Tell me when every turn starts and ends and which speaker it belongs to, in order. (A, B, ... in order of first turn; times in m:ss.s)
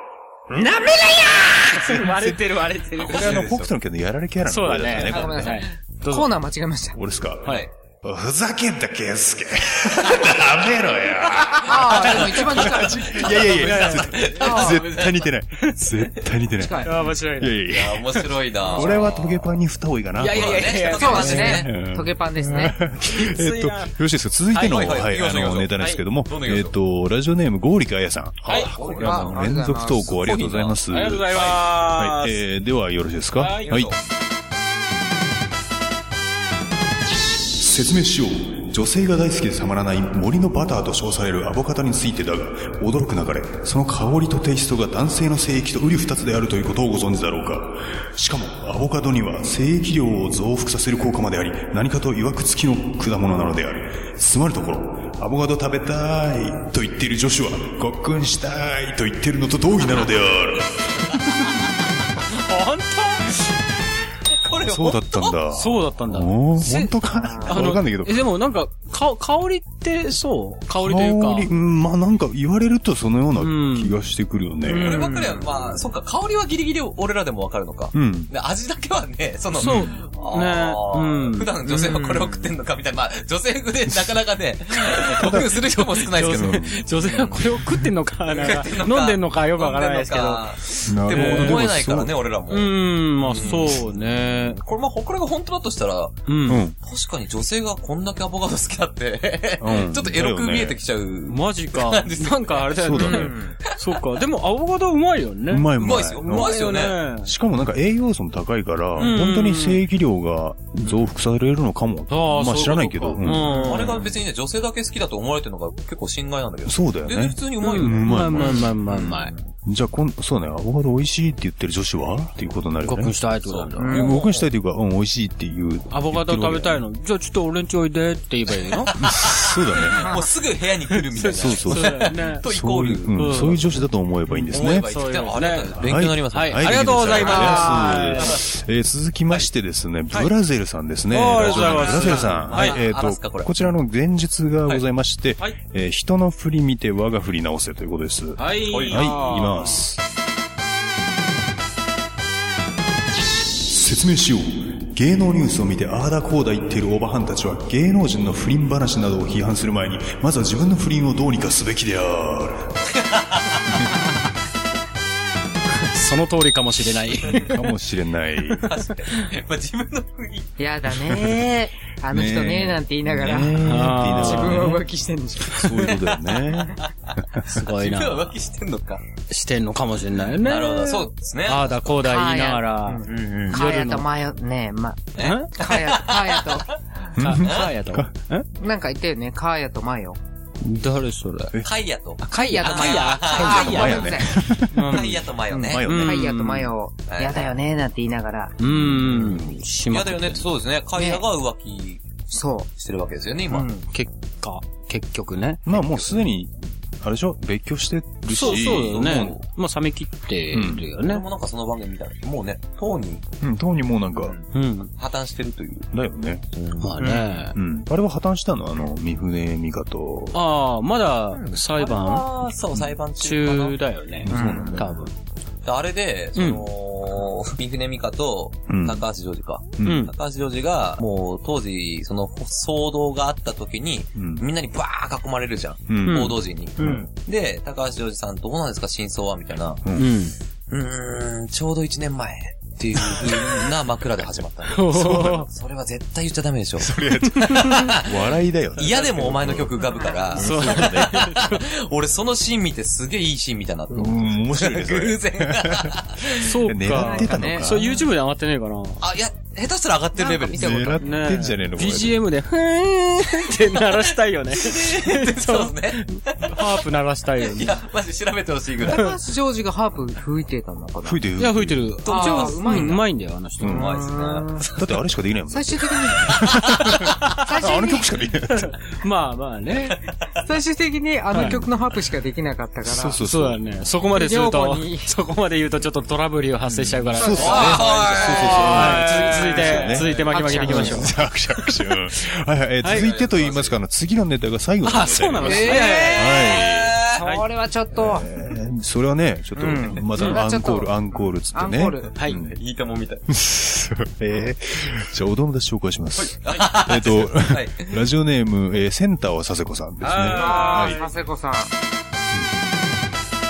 0:00.5-0:02.0 A
0:01.7-0:03.5 B
0:02.1-0:02.4 C
0:03.0-0:05.6 C
0:03.1-0:03.7 D
0:04.5-0:06.3 B
0:05.1-0:07.0 A
0:06.9-0:33.9 C
0:07.4-0:07.7 D
0:11.6-0:13.1 A
0:11.9-0:15.3 D
0:13.6-0:14.3 B
0:14.4-0:14.8 A
0:16.6-0:17.0 A
0:16.8-0:17.6 B
0:17.7-0:19.6 D
0:18.7-0:19.1 A
0:20.2-0:21.5 B
0:20.2-0:21.7 D
0:21.0-0:22.8 A
0:23.0-0:23.9 B
0:24.6-0:26.7 D
0:28.5-0:28.7 B
0:28.5-0:29.4 D
0:28.8-0:30.1 A
0:30.1-0:30.8 D
0:30.9-0:32.4 B
0:31.3-0:31.6 D
0:33.4-0:33.8 B
0:33.7-0:34.0 D
0:37.6-1:01.5 C
1:02.3-1:03.4 B
1:04.4-1:05.4 D
1:04.6-1:08.3 C
1:05.5-1:06.9 B
1:07.1-1:07.6 A
1:07.5-1:11.5 B
1:10.8-1:15.0 C
1:13.4-1:14.0 B
1:14.7-1:15.6 A
1:14.7-1:27.4 D
1:17.9-1:18.3 C
1:19.6-1:21.5 B
1:19.6-1:19.9 C
1:21.7-1:22.5 A
1:25.1-1:25.6 C
1:25.6-1:30.4 B
1:26.2-1:26.8 C
1:28.3-1:36.2 D
1:30.9-1:32.1 C
1:31.1-1:31.6 B
1:32.5-1:34.6 B
1:36.3-1:36.6 B
1:36.5-1:36.8 C
1:36.8-1:43.7 D
1:39.6-1:40.8 C
1:41.3-1:47.3 B
1:42.8-1:43.4 C
1:43.0-1:43.6 A
1:45.5-1:46.7 C
1:45.8-1:47.0 D
1:47.2-1:53.5 C
1:49.0-1:49.8 B
1:52.1-1:54.0 B
1:53.5-1:54.1 A
1:53.5-1:59.5 D
1:56.6-1:58.7 C
1:57.6-1:59.3 B
1:59.6-2:03.2 C
2:02.9-2:04.0 B
2:03.5-2:04.5 D
2:03.8-2:04.2 A
2:03.8-2:06.8 C
2:05.9-2:08.9 B
2:08.9-2:13.6 D
2:09.0-2:10.0 C
2:11.1-2:12.4 B
2:11.3-2:14.9 C
2:13.1-2:13.6 B
2:14.3-2:15.8 B
2:14.5-2:17.8 D
2:15.8-2:30.0 C
2:16.3-2:18.4 B
2:21.1-2:22.8 B
2:21.4-2:23.7 D
2:28.4-2:29.8 B
2:28.7-2:29.1 D
2:33.6-2:42.7 C
2:42.9-2:43.8 D
2:45.8-2:47.5 B
2:47.3-2:48.7 C
2:48.6-2:50.6 D
2:50.6-2:55.9 A
2:51.0-2:51.4 C
2:52.1-2:54.8 C
2:53.6-2:54.8 B
2:55.5-2:56.8 C
2:57.4-2:58.4 B
2:57.8-2:59.0 D
2:59.3-3:04.1 B
3:00.4-3:02.0 D
3:02.0-3:06.7 A
3:03.1-3:03.6 D
3:05.2-3:06.8 D
3:05.2-3:05.5 B
3:07.2-3:08.1 C
3:07.2-3:08.5 B
3:07.4-3:07.7 D
3:08.6-3:10.2 A
3:10.6-3:11.5 B
3:11.6-3:14.1 D
3:12.2-3:14.1 B
3:12.3-3:14.3 A
3:13.3-3:15.1 C
3:14.7-3:15.2 B
3:14.9-3:15.9 D
3:15.5-3:18.6 A
3:15.7-3:16.3 C
3:15.9-3:16.7 B
3:17.1-3:17.5 D
3:18.6-3:20.4 B
3:18.7-3:19.4 C
3:19.9-3:22.0 D
3:21.0-3:21.2 A
3:22.3-3:22.7 A
3:22.8-3:23.8 D
3:23.9-3:25.7 B
3:25.7-3:29.3 C
3:28.3-3:31.2 B
3:28.4-3:29.4 D
3:30.5-3:30.8 C
3:31.0-3:33.3 D
3:33.4-3:34.4 C
3:34.2-3:35.9 D
3:34.5-3:34.9 B
3:35.9-3:36.4 C
3:36.5-3:37.0 D
3:36.8-3:37.6 B
3:37.5-3:40.4 C
3:40.3-3:42.3 B
3:41.3-3:43.8 D
3:43.2-3:45.1 B
3:44.2-3:45.0 C
3:44.3-3:44.8 D
3:44.3-3:44.8 A
3:45.6-3:59.8 D
3:46.4-3:46.7 B
3:48.7-3:49.1 C
3:49.8-3:50.1 C
3:49.8-3:50.1 B
3:54.2-3:54.5 C
3:55.9-3:57.0 C
3:56.1-3:56.3 B
3:59.8-4:00.2 C
4:00.0-4:00.3 B
4:00.7-4:08.2 D
4:03.0-4:03.3 C
4:04.7-4:05.5 B
4:04.9-4:05.4 C
4:06.8-4:11.5 C
4:08.8-4:16.5 D
4:10.4-4:11.6 B
4:13.9-4:17.8 C
4:16.4-4:19.0 B
4:16.9-4:18.0 A
4:19.0-4:21.0 D
4:20.2-4:21.1 A
4:20.5-4:22.2 C
4:21.0-4:27.8 B
4:23.9-4:26.8 D
4:27.4-4:29.1 D
4:28.8-4:31.2 A
4:31.0-4:32.0 C
4:31.4-4:33.9 B
4:32.0-4:33.0 D
4:32.1-4:33.0 A
4:33.6-4:34.8 D
4:33.7-4:34.6 A
4:34.8-4:38.8 C
4:35.5-4:38.0 A
4:38.5-4:40.0 B
4:40.4-4:43.2 A
4:41.3-4:41.6 B
4:42.8-4:43.7 C
4:43.2-4:51.1 B
4:44.1-4:45.1 A
4:46.7-4:57.0 C
4:47.2-4:48.9 A
4:47.4-4:50.5 D
4:50.3-4:51.1 A
4:52.8-4:53.1 B
4:52.9-4:53.8 D
4:54.8-4:56.4 B
4:55.4-4:56.6 A
4:55.5-4:57.2 D
4:57.2-4:58.3 A
4:57.2-4:57.4 B
4:58.0-5:02.6 C
4:59.6-5:00.9 A
4:59.6-5:00.1 D
5:01.5-5:02.1 A
5:02.1-5:03.2 D
5:03.3-5:11.0 C
5:06.2-5:08.0 D
5:10.0-5:11.1 B
5:10.4-5:11.7 A